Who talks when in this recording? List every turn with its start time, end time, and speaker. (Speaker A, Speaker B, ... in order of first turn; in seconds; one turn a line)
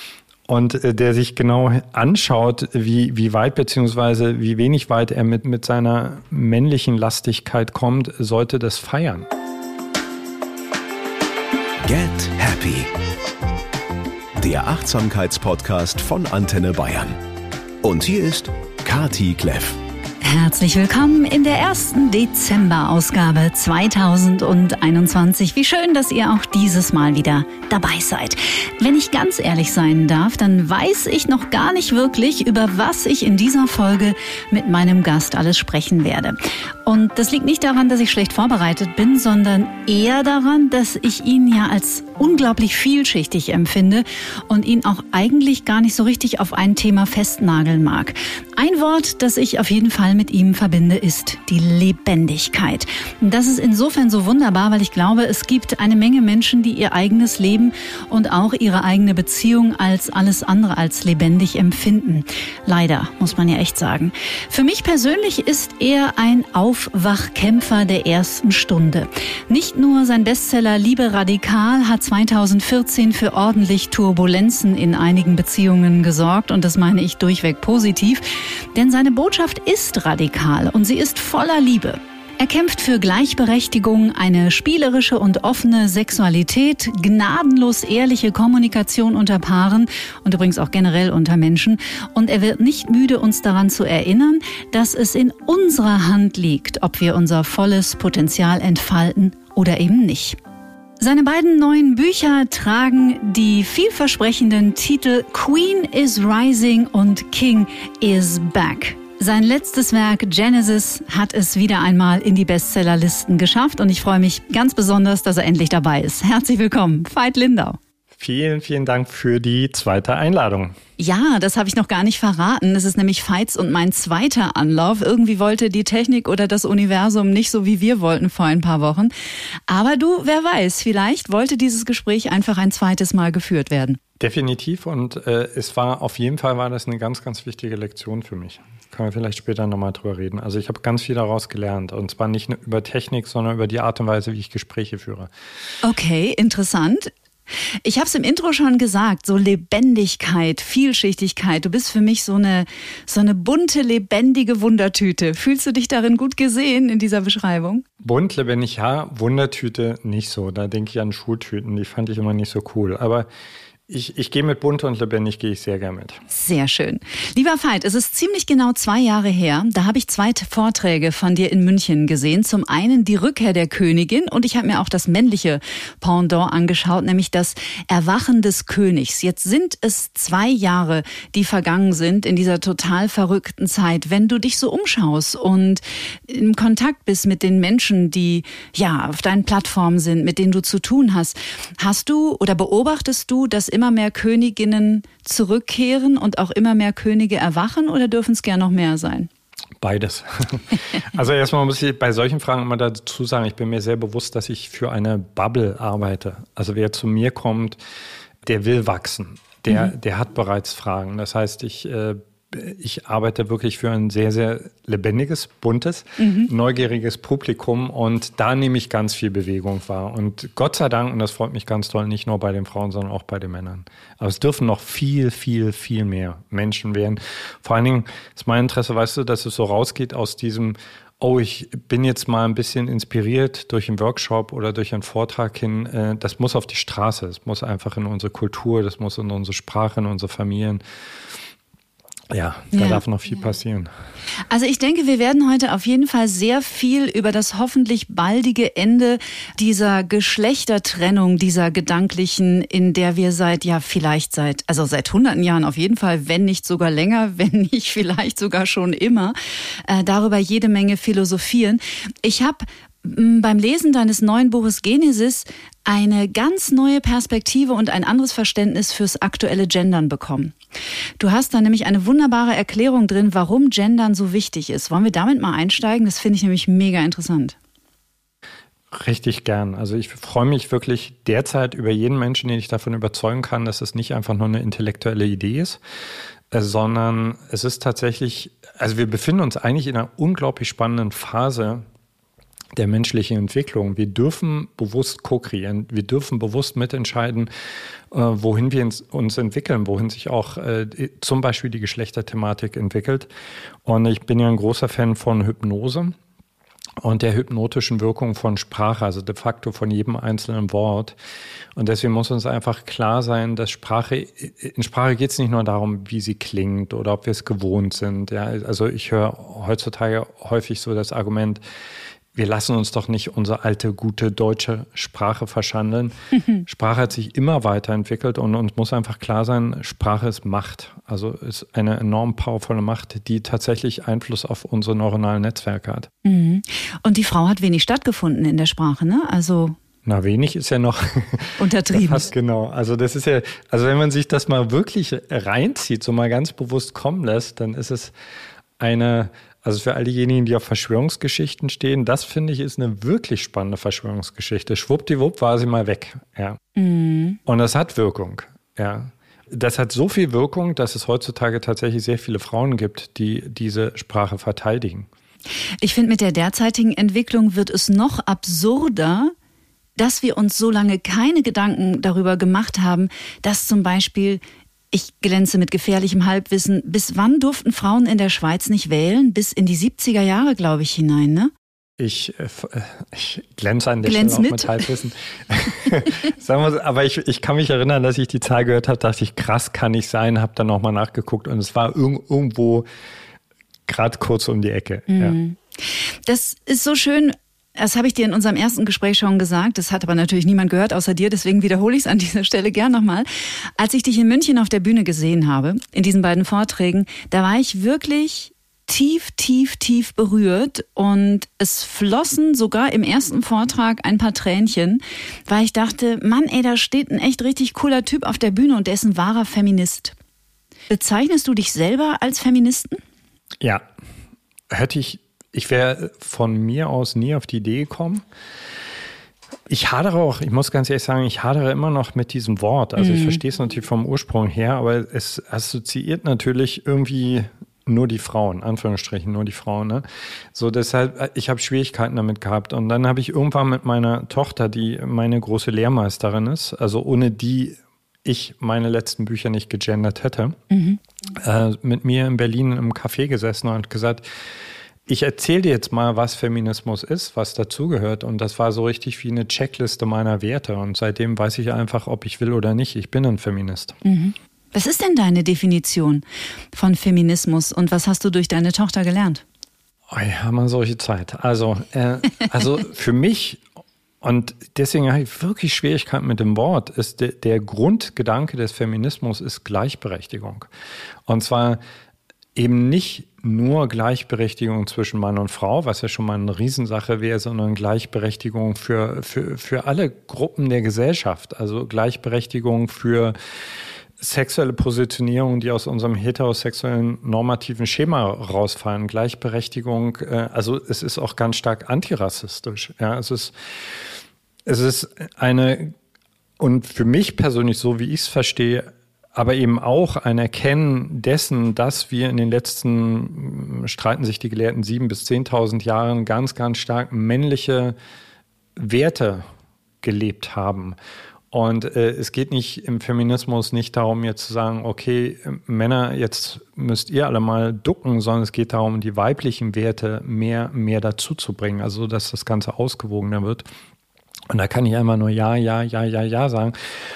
Speaker A: 0.5-9.3
Speaker B: 11.8-12.9
Speaker B: 14.4-17.2
Speaker B: 17.8-19.8
Speaker C: 20.2-100.4
Speaker C: 101.0-117.8
Speaker A: 118.2-120.7
Speaker C: 121.0-129.1
Speaker C: 129.7-134.0
Speaker A: 134.2-145.3
Speaker C: 145.8-147.1
Speaker C: 147.8-157.8
Speaker A: 158.0-163.3
Speaker A: 163.9-166.2
Speaker C: 166.3-199.3
Speaker A: 199.8-207.8
Speaker A: 208.4-240.8
Speaker C: 216.2-216.5
Speaker A: 242.3-243.9
Speaker C: 242.7-243.0
Speaker C: 244.5-270.6
Speaker C: 271.2-277.6
Speaker A: 278.9-285.8
Speaker A: 286.5-291.8
Speaker A: 292.8-297.5
Speaker A: 298.1-303.3
Speaker A: 303.8-306.1
Speaker A: 307.0-311.1
Speaker A: 311.8-321.6
Speaker A: 322.3-336.1
Speaker C: 336.2-339.8
Speaker A: 340.0-348.1
Speaker C: 341.6-342.2
Speaker A: 348.8-356.6
Speaker C: 356.8-357.4
Speaker A: 357.4-365.1
Speaker C: 365.8-369.3
Speaker C: 369.9-381.5
Speaker A: 382.0-392.9
Speaker C: 384.0-384.8
Speaker A: 393.9-395.4
Speaker C: 395.1-420.1
Speaker C: 420.9-423.0
Speaker A: 424.7-428.2
Speaker A: 429.7-450.6
Speaker C: 433.0-433.4
Speaker C: 450.7-451.0
Speaker A: 451.3-454.2
Speaker A: 455.1-464.0
Speaker C: 464.0-469.4
Speaker A: 470.1-473.6
Speaker A: 474.2-480.7
Speaker A: 481.3-481.8
Speaker A: 482.5-493.3
Speaker A: 494.2-504.0
Speaker A: 504.6-505.9
Speaker A: 506.6-517.9
Speaker A: 518.8-519.5
Speaker A: 520.0-521.0
Speaker A: 521.5-533.6
Speaker A: 534.5-536.7